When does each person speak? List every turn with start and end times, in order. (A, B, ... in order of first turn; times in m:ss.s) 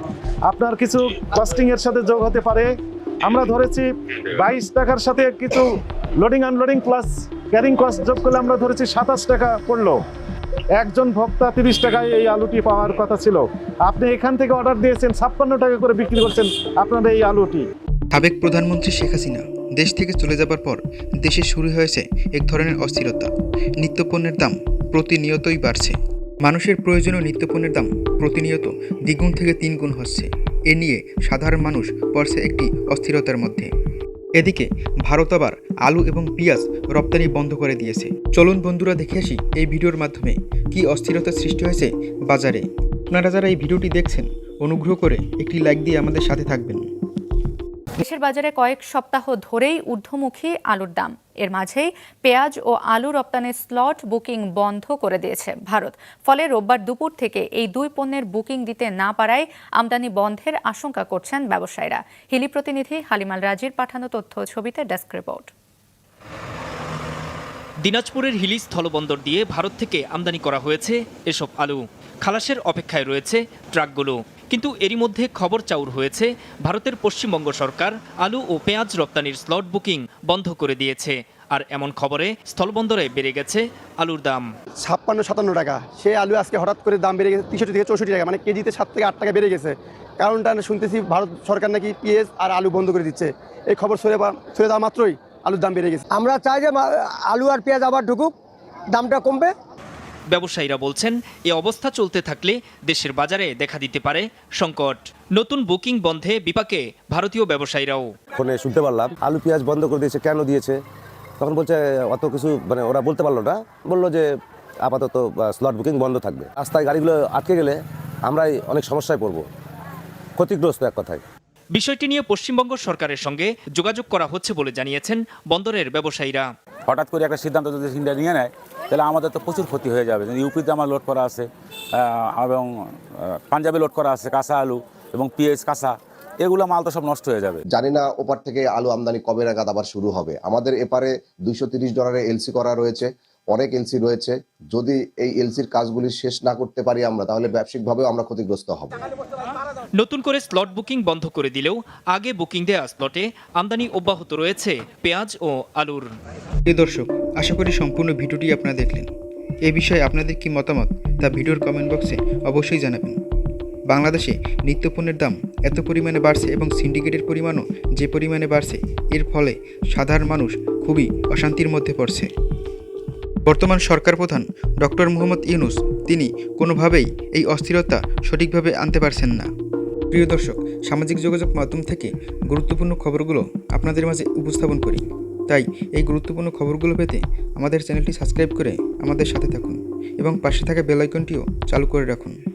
0:00.4-0:10.0 A
0:10.8-0:17.7 A
0:18.1-0:33.7 B
0:34.4-0:46.8 B
0:48.0-1:05.5 C
1:07.8-1:24.5 D
1:24.8-1:36.0 E
1:36.1-1:38.4 F
1:38.9-1:39.5 F
1:40.3-1:48.1 D
1:48.4-1:50.8 G
1:51.4-1:54.3 G
1:54.9-1:59.4 G
2:00.4-2:01.2 G
2:01.8-2:06.5 D
2:06.9-2:12.7 H
2:13.5-2:17.6 H
2:17.7-2:29.0 I
2:30.0-2:36.1 D
2:36.7-2:39.1 B
2:39.7-2:43.2 B
2:43.9-2:52.3 B
2:53.4-2:59.5 B
3:00.1-3:12.4 B